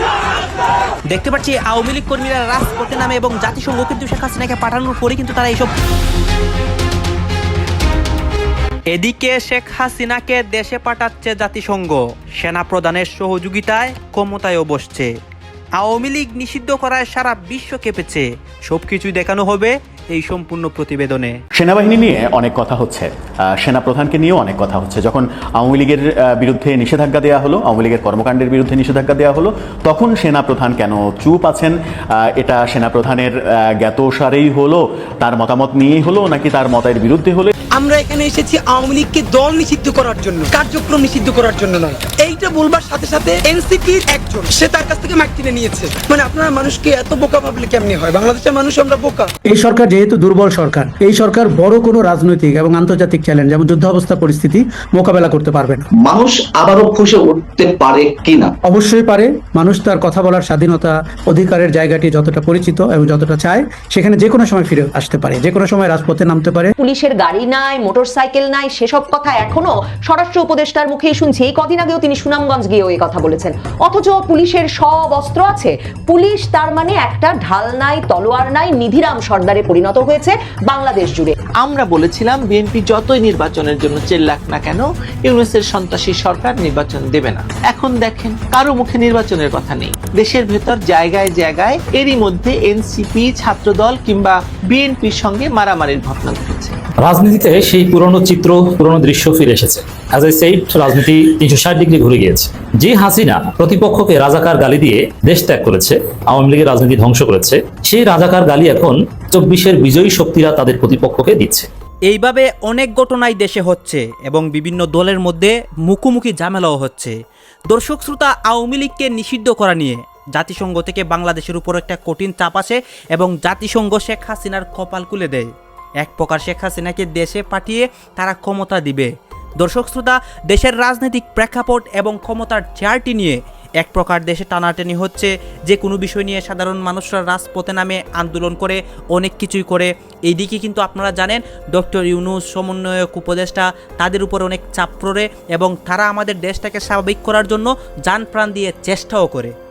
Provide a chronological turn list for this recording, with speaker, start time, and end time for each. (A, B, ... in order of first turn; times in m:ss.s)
0:01.1-0:05.7 A
0:08.9-0:15.1 A
0:15.8-0:21.4 A
0:21.6-0:37.5 B
0:37.8-0:49.3 C
0:49.5-0:55.9 D
0:56.0-0:58.5 E
0:58.6-1:06.7 D
1:06.8-1:21.4 F
1:21.6-1:36.8 G
1:37.0-1:51.7 H
1:52.1-1:57.1 A
1:57.7-2:05.5 A
2:06.0-2:29.5 A